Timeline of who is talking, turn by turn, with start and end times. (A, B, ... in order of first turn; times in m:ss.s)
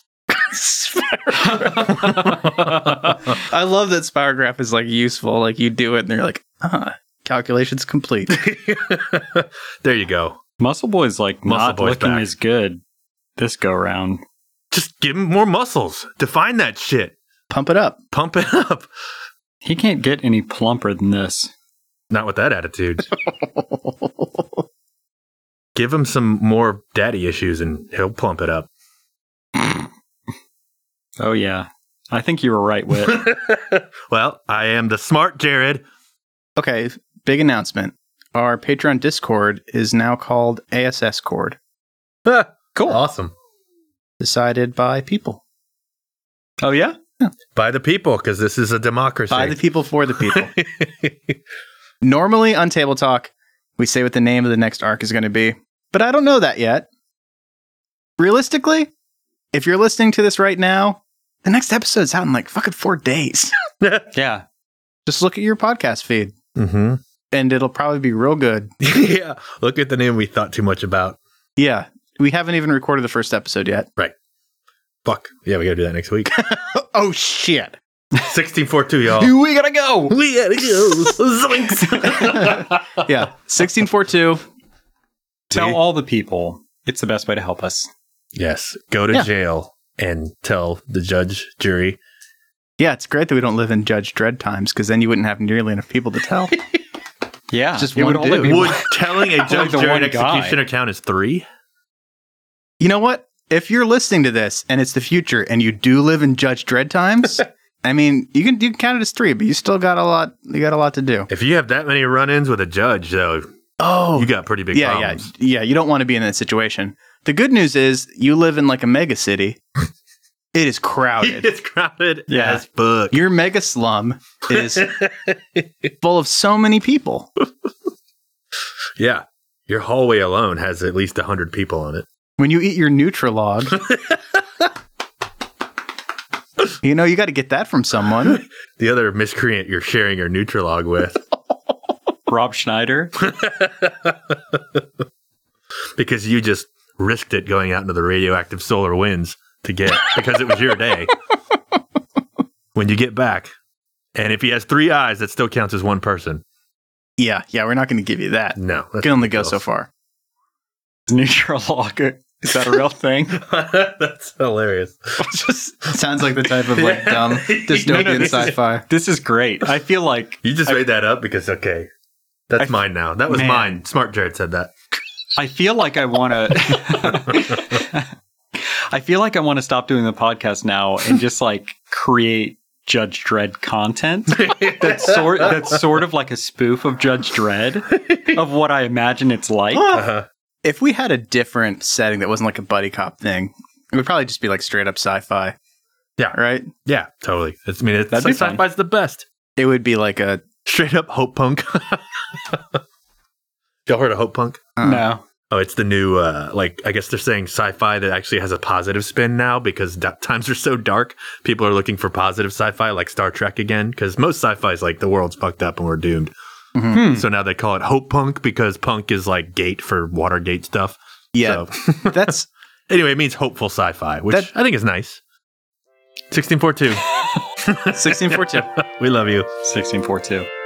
0:00.3-0:01.7 A
0:01.6-0:03.2 B
0:03.4-0:08.4 A
0:08.3-0:10.4 B
0:10.6-0:12.8 C
0:11.4-0:12.3 B
0:13.4-0:14.2 C
0:14.7-0:17.2 B
0:17.5-0:18.0 A
0:18.1-0:18.9 B
0:19.6-0:21.5 C
0:22.1-0:23.1 B
0:25.7-0:28.7 B
0:31.2-0:33.3 C
0:33.0-0:35.8 B
0:36.6-0:41.6 A
0:42.2-0:43.3 B
0:42.7-0:43.0 C
0:44.2-0:45.4 A
0:46.6-0:47.0 C
0:47.5-0:49.6 B
0:49.3-0:50.5 A
0:50.1-0:51.4 B
0:52.0-0:56.9 A
0:58.2-0:58.9 A
0:59.5-1:03.5 A
1:03.8-1:04.1 B
1:04.1-1:04.4 C
1:05.0-1:06.3 A
1:06.6-1:07.0 B
1:07.3-1:08.7 A
1:08.8-1:11.2 B
1:11.6-1:13.9 A
1:15.0-1:16.4 B
1:16.4-1:17.8 A
1:18.2-1:19.3 B
1:19.1-1:20.2 C
1:20.1-1:23.1 B
1:22.2-1:24.4 A
1:25.5-1:25.8 B
1:25.5-1:27.9 C
1:28.3-1:32.0 B
1:32.8-1:36.6 A
1:37.5-1:40.6 C
1:37.8-1:38.7 A
1:38.4-1:41.4 B
1:42.8-1:51.3 A
1:51.3-1:53.5 B
1:53.8-1:59.6 A
1:54.1-1:55.2 B
2:00.5-2:01.5 A
2:01.2-2:03.2 B
2:02.3-2:02.6 C
2:03.1-2:04.9 A
2:04.5-2:05.9 B
2:06.0-2:07.3 A
2:09.0-2:12.0 B
2:12.4-2:13.8 A
2:13.7-2:14.4 B
2:16.8-2:18.4 A
2:18.2-2:21.2 B
2:22.3-2:23.1 C
2:23.2-2:24.8 B
2:26.0-2:31.1 B
2:32.7-2:33.5 B
2:34.1-2:36.4 B
2:37.2-2:39.9 A
2:38.6-2:39.6 B
2:41.1-2:43.4 C
2:43.3-2:45.9 B
2:45.3-2:48.8 A
2:46.4-2:48.6 B
2:47.9-2:50.8 C
2:50.4-2:51.9 B
2:52.5-2:54.7 B
2:52.6-2:53.8 C
2:55.4-3:10.0 C
2:57.3-2:57.5 B
3:04.3-3:05.8 B
3:07.9-3:08.4 B
3:09.7-3:10.1 A
3:09.9-3:10.2 B
3:10.6-3:15.5 A
3:16.2-3:19.2 B
3:16.3-3:16.7 A
3:18.1-3:18.6 C
3:19.6-3:20.4 A
3:20.6-3:22.8 B
3:23.9-3:24.6 B
3:24.8-3:25.0 A
3:24.8-3:25.2 C
3:25.5-3:36.3 B
3:36.7-3:37.0 A
3:36.9-3:37.2 C
3:36.9-3:42.3 B
3:41.3-3:42.5 A
3:42.9-3:45.2 B
3:46.3-3:47.0 B
3:47.6-3:49.5 B
3:47.9-3:48.7 A
3:49.6-3:50.5 C